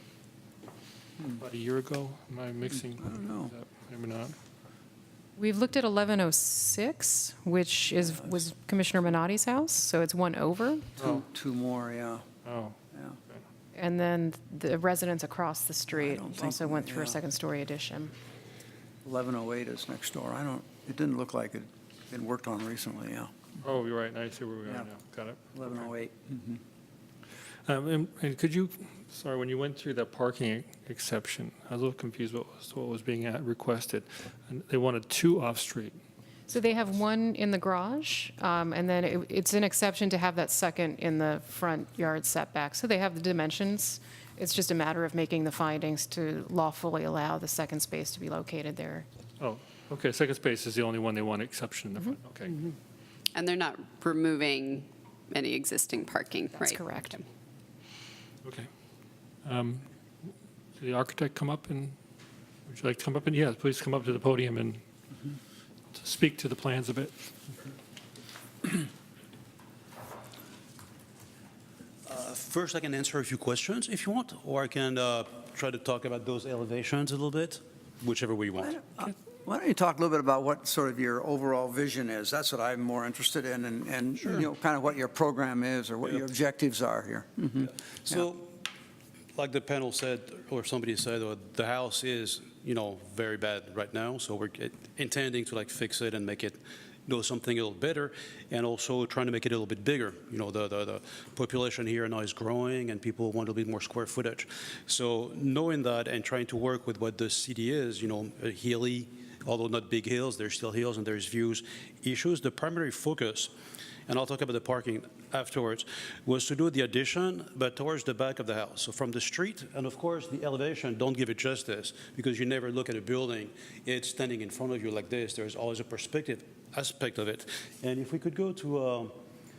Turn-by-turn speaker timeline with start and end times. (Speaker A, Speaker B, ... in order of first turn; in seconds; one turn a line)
Speaker A: 1.4-4.3
Speaker B: 2.9-3.5
Speaker C: 5.4-10.9
Speaker B: 11.0-12.2
Speaker A: 12.4-12.8
Speaker C: 13.7-18.1
Speaker B: 15.9-17.2
Speaker B: 19.0-23.3
Speaker A: 23.6-25.9
Speaker B: 25.5-26.6
Speaker A: 27.7-36.0
Speaker C: 36.5-49.0
Speaker A: 49.4-52.7
Speaker D: 53.4-57.2
Speaker C: 56.5-57.2
Speaker A: 59.4-59.8
Speaker A: 60.8-61.9
Speaker A: 62.7-64.8
Speaker A: 66.0-67.1
Speaker E: 72.0-78.8
Speaker B: 78.6-88.2
Speaker E: 88.0-88.5
Speaker E: 89.3-113.5
Speaker E: 114.1-129.1